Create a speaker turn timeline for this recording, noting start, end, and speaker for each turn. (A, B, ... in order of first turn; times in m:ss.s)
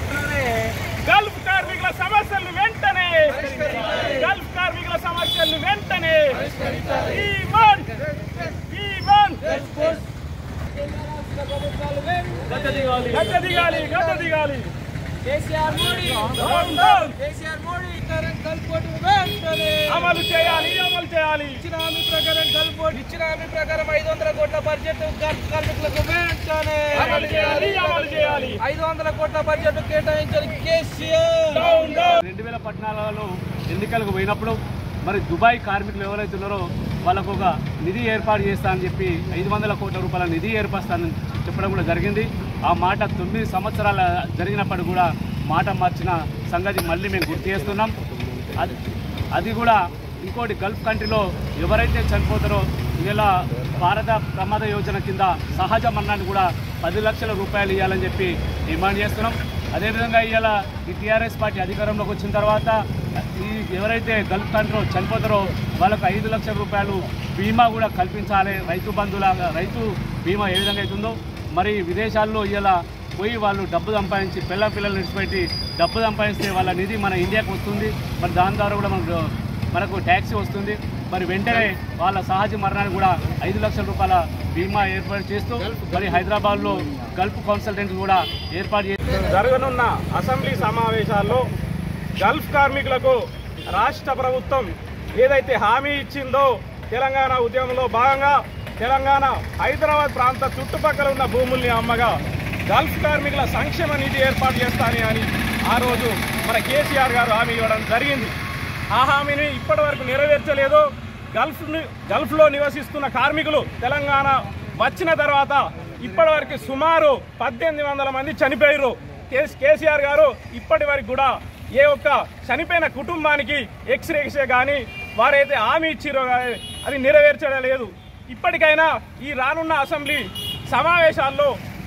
0:00.8-0:09.8 A
0:09.6-0:10.0 B
0:10.7-0:13.1 B
0:13.0-0:14.7 A
0:15.2-0:19.9 B
0:16.3-0:17.2 A
0:19.9-0:21.7 A
0:21.6-0:27.3 B
0:27.0-0:28.6 A
0:28.6-0:31.7 B
0:31.5-0:32.2 A
0:32.2-0:47.9 C
0:48.5-1:29.1 C
1:29.1-1:31.5 A
1:32.2-1:48.3 A
1:48.9-2:11.6 A